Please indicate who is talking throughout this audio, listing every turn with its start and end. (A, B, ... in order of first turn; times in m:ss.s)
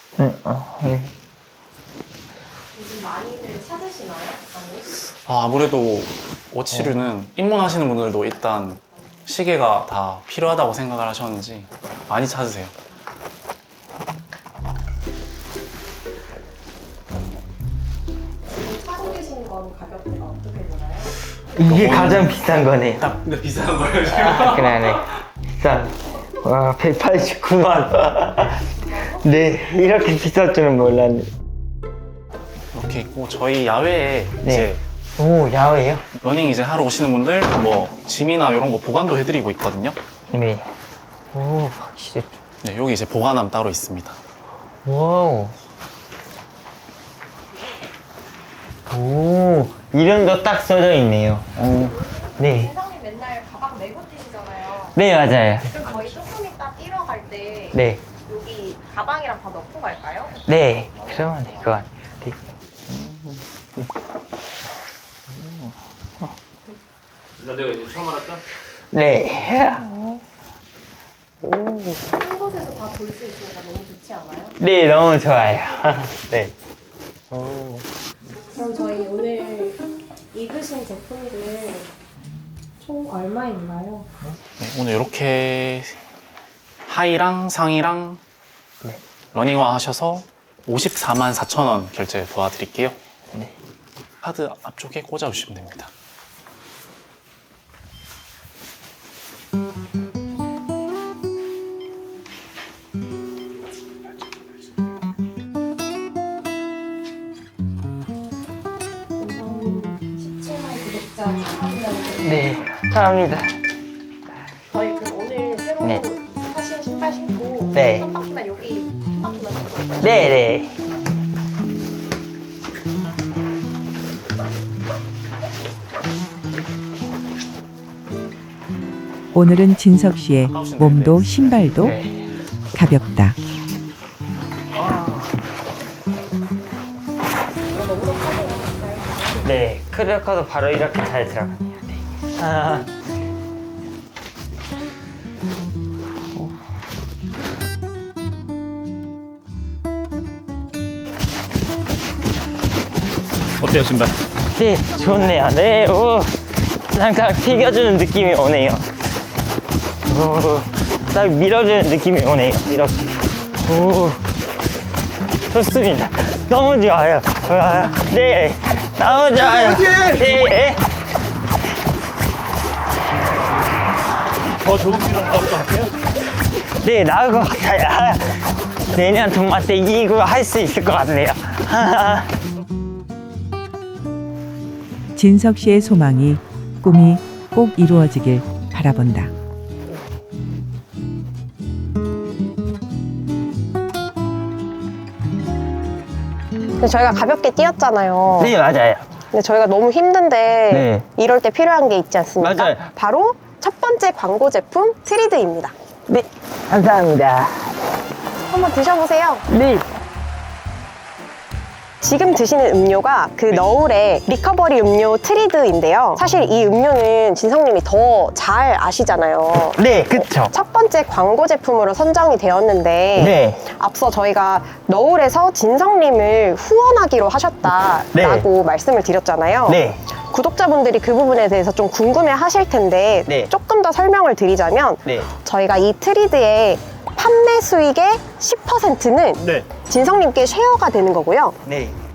0:00.2-0:01.1 A
0:02.7-0:04.9 B
0:05.1-0:12.7 C
0:18.5-0:21.1 B
0:21.6-0:23.1 A
0:21.6-0:22.4 C
0:23.0-0:25.2 C
0:24.1-0:28.6 A
0:28.8-0:29.3 B
0:29.2-0:31.3 A
0:32.7-0:34.8 C
0:34.4-0:36.0 A
0:36.2-0:40.0 C
0:40.3-0:40.7 A
0:41.3-0:42.4 A
0:42.6-0:44.2 C
0:44.8-0:45.5 A
0:48.9-0:52.7 A
0:51.7-0:55.0 B
0:54.9-0:55.7 A
0:55.7-1:00.3 B
0:55.8-0:56.3 D
0:57.7-0:58.0 A
1:00.4-1:03.9 A
1:05.4-1:06.3 A
1:07.4-1:08.4 D
1:08.9-1:10.2 A
1:11.4-1:12.0 A
1:12.1-1:14.6 B
1:14.6-1:16.5 A
1:17.3-1:17.8 A
1:18.5-1:21.9 B
1:22.8-1:24.1 B
1:24.6-1:26.0 C
1:26.8-1:28.2 C
1:29.3-1:33.0 C
1:34.2-1:35.9 C
1:49.2-1:52.6 B
1:52.2-1:53.5 A
1:54.7-2:00.3 B
1:57.7-1:58.0 A
2:00.0-2:00.8 A
2:09.3-2:11.9 E
2:10.4-2:11.9 C
2:11.8-2:12.2 A
2:12.7-2:13.4 E
2:14.8-2:15.2 A
2:17.7-2:19.4 B
2:19.4-2:22.9 A
2:33.6-2:34.1 D
2:34.5-2:36.3 A
2:36.9-2:38.8 A
2:40.0-2:43.1 A
2:43.6-2:44.2 A
2:45.5-2:50.8 A
2:54.6-2:56.0 D
2:56.7-3:02.3 A
3:05.1-3:09.3 E
3:16.8-3:18.6 F
3:18.3-3:19.0 A
3:19.3-3:25.7 F
3:20.7-3:21.0 A
3:22.4-3:22.9 A
3:26.1-3:27.7 A
3:28.4-3:29.4 F
3:29.5-3:29.8 A
3:32.0-4:01.6 F
3:39.8-3:40.5 A
3:43.2-3:43.6 A
3:48.1-3:48.4 A
3:49.7-3:50.0 A
4:01.6-4:02.0 A